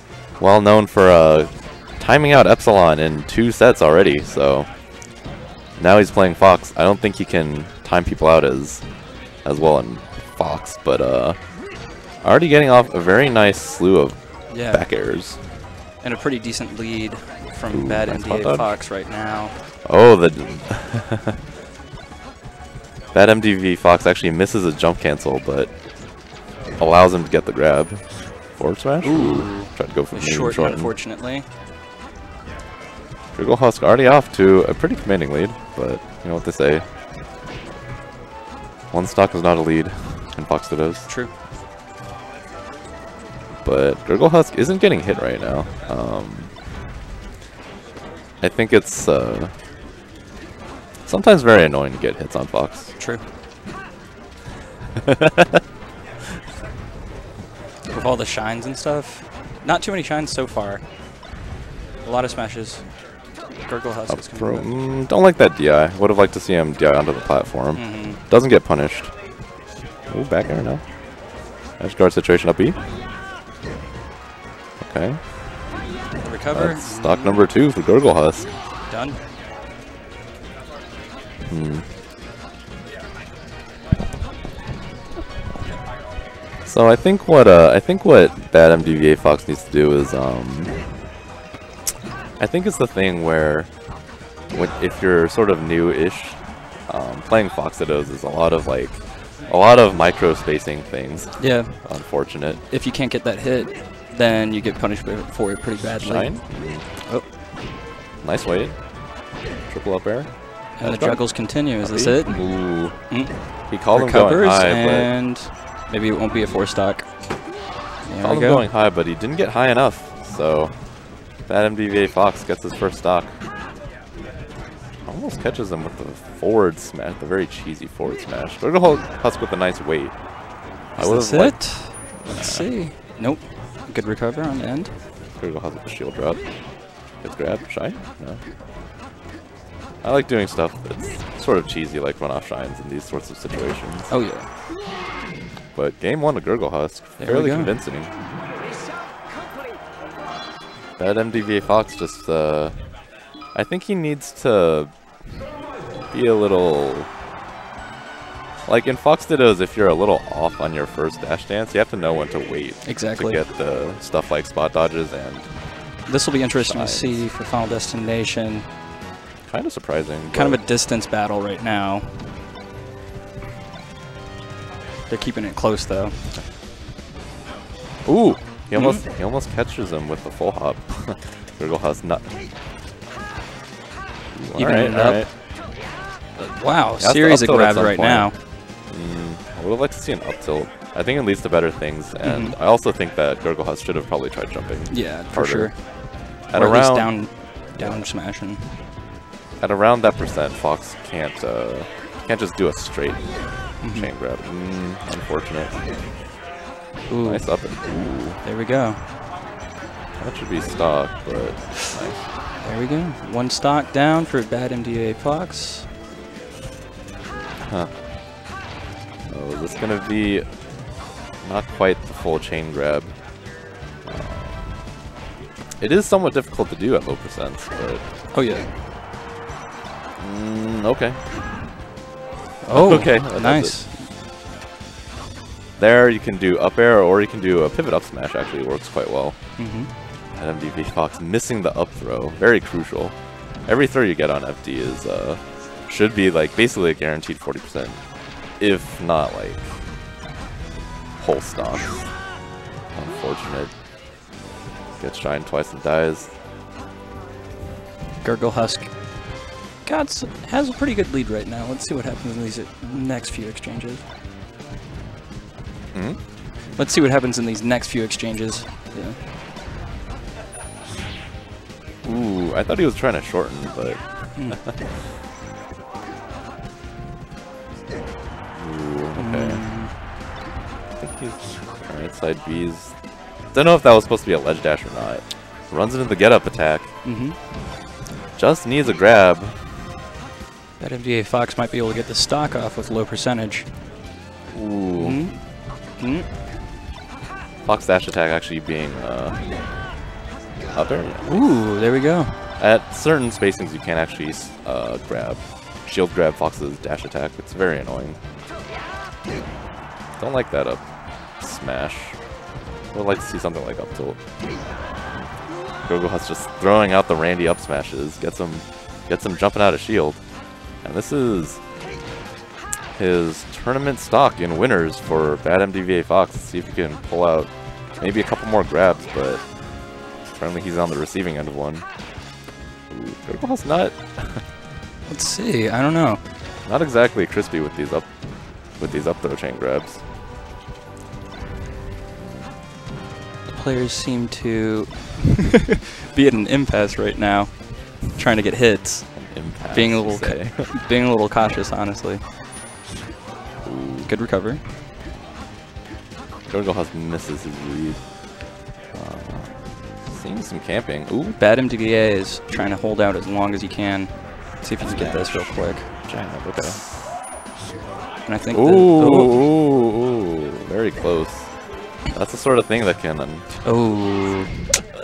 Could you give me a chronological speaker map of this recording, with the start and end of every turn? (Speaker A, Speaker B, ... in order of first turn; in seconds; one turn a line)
Speaker A: 0.4-4.8
Speaker A: 5.8-15.5
Speaker B: 14.5-15.0
Speaker B: 16.0-19.6
Speaker A: 17.7-18.8
Speaker A: 19.8-21.3
Speaker A: 23.1-25.9
Speaker A: 26.8-30.9
Speaker B: 29.0-31.5
Speaker A: 33.4-36.9
Speaker A: 38.9-41.1
Speaker B: 41.1-41.3
Speaker A: 43.6-46.6
Speaker A: 48.4-49.6
Speaker A: 51.1-53.0
Speaker B: 53.0-53.3
Speaker B: 57.9-60.9
Speaker B: 62.0-63.1
Speaker B: 63.6-64.7
Speaker A: 64.1-69.1
Speaker B: 67.7-68.2
Speaker A: 70.1-71.0
Speaker A: 71.8-72.8
Speaker A: 74.8-75.6
Speaker B: 76.2-77.5
Speaker A: 76.5-78.5
Speaker B: 78.9-79.2
Speaker A: 81.5-81.9
Speaker A: 86.7-90.9
Speaker A: 92.4-93.8
Speaker A: 94.5-102.6
Speaker B: 101.4-107.3
Speaker A: 106.0-106.9
Speaker A: 108.2-115.1
Speaker B: 110.8-117.3
Speaker B: 118.0-118.7
Speaker A: 118.2-123.4
Speaker A: 125.1-130.3
Speaker A: 130.8-132.7
Speaker B: 131.0-134.9
Speaker A: 135.4-138.4
Speaker A: 140.0-144.1
Speaker B: 144.1-144.5
Speaker A: 145.7-148.2
Speaker B: 147.2-147.8
Speaker A: 151.0-154.9
Speaker A: 156.1-157.1
Speaker A: 158.7-165.6
Speaker B: 162.8-163.4
Speaker B: 166.1-168.7
Speaker A: 166.6-167.3
Speaker A: 169.5-170.6
Speaker B: 170.3-172.4
Speaker B: 175.1-176.4
Speaker A: 178.1-182.3
Speaker B: 178.7-179.1
Speaker A: 184.3-185.3
Speaker B: 184.6-185.4
Speaker B: 186.4-188.4
Speaker A: 187.0-198.1
Speaker B: 192.2-192.6
Speaker B: 194.9-198.9
Speaker A: 199.6-205.9
Speaker B: 203.8-204.1
Speaker B: 207.1-209.1
Speaker A: 207.2-208.4
Speaker A: 210.2-212.3
Speaker B: 212.6-215.9
Speaker A: 217.6-217.9
Speaker A: 219.3-223.4
Speaker A: 224.0-224.8
Speaker A: 225.8-228.0
Speaker B: 228.3-228.7
Speaker A: 230.2-231.3
Speaker B: 232.6-234.1
Speaker A: 232.7-234.0
Speaker A: 235.8-239.7
Speaker B: 239.6-239.9
Speaker A: 240.3-249.8
Speaker A: 251.2-252.3
Speaker A: 252.9-253.8
Speaker A: 254.9-256.3
Speaker B: 258.2-264.0
Speaker A: 265.9-266.8
Speaker B: 266.7-269.2
Speaker A: 272.0-274.9
Speaker B: 274.4-274.6
Speaker A: 278.5-279.7
Speaker B: 279.1-280.0
Speaker A: 281.0-287.0
Speaker B: 287.0-287.5
Speaker A: 288.4-289.6
Speaker B: 290.8-293.7
Speaker A: 294.5-295.3
Speaker B: 294.9-296.3
Speaker A: 297.6-299.5
Speaker A: 300.7-301.6
Speaker B: 301.2-302.4
Speaker A: 302.6-308.2
Speaker A: 310.2-314.3
Speaker A: 315.8-321.6
Speaker A: 322.9-332.0
Speaker A: 332.9-334.4
Speaker B: 335.1-336.2
Speaker A: 336.6-340.0
Speaker A: 342.2-342.5
Speaker B: 343.5-352.2
Speaker A: 349.1-350.7
Speaker A: 353.6-354.1
Speaker B: 354.1-354.6
Speaker A: 356.5-358.4
Speaker A: 358.9-361.4
Speaker B: 361.4-365.9
Speaker A: 364.8-366.9
Speaker B: 368.3-369.4
Speaker A: 368.5-374.6
Speaker B: 373.6-374.7